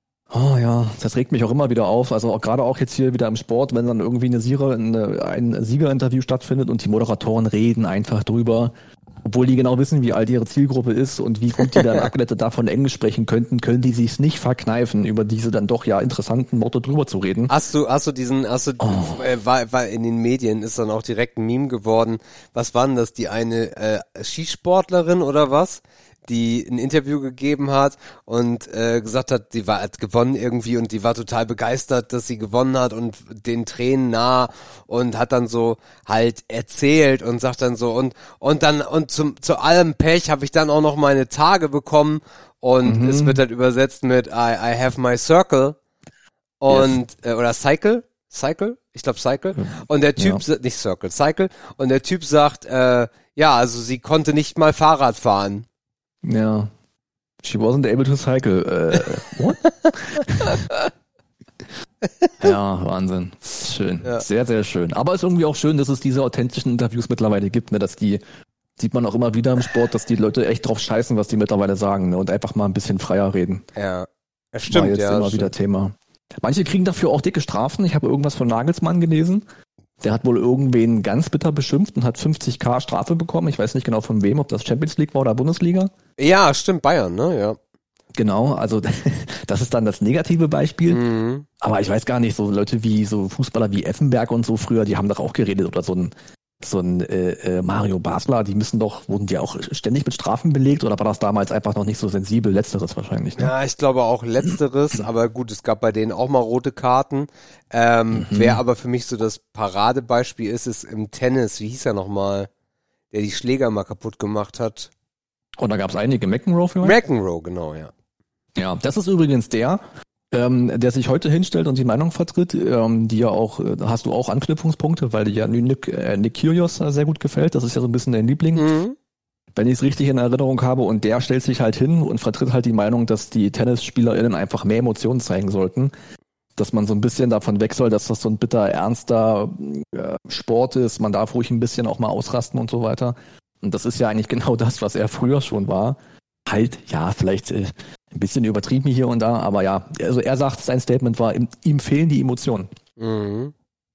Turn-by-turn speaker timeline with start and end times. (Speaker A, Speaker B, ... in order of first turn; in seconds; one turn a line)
Speaker A: 0.3-17.5
Speaker B: 17.5-45.8
Speaker A: 18.8-19.2
Speaker A: 42.8-43.4
Speaker B: 46.6-55.7
Speaker A: 46.7-46.9
Speaker A: 49.6-50.4
Speaker A: 56.2-56.7
Speaker A: 57.4-60.6
Speaker A: 62.4-68.2
Speaker A: 68.8-73.6
Speaker B: 73.8-75.5
Speaker A: 74.7-79.5
Speaker A: 80.0-85.9
Speaker B: 86.2-87.6
Speaker A: 88.2-91.0
Speaker B: 90.9-91.5
Speaker A: 91.6-103.5
Speaker B: 103.4-112.5
Speaker A: 108.1-108.6
Speaker B: 113.1-114.9
Speaker A: 115.6-117.0
Speaker B: 116.8-117.9
Speaker A: 118.5-128.7
Speaker B: 128.6-129.0
Speaker A: 129.6-135.9
Speaker A: 136.6-152.7
Speaker B: 153.0-153.5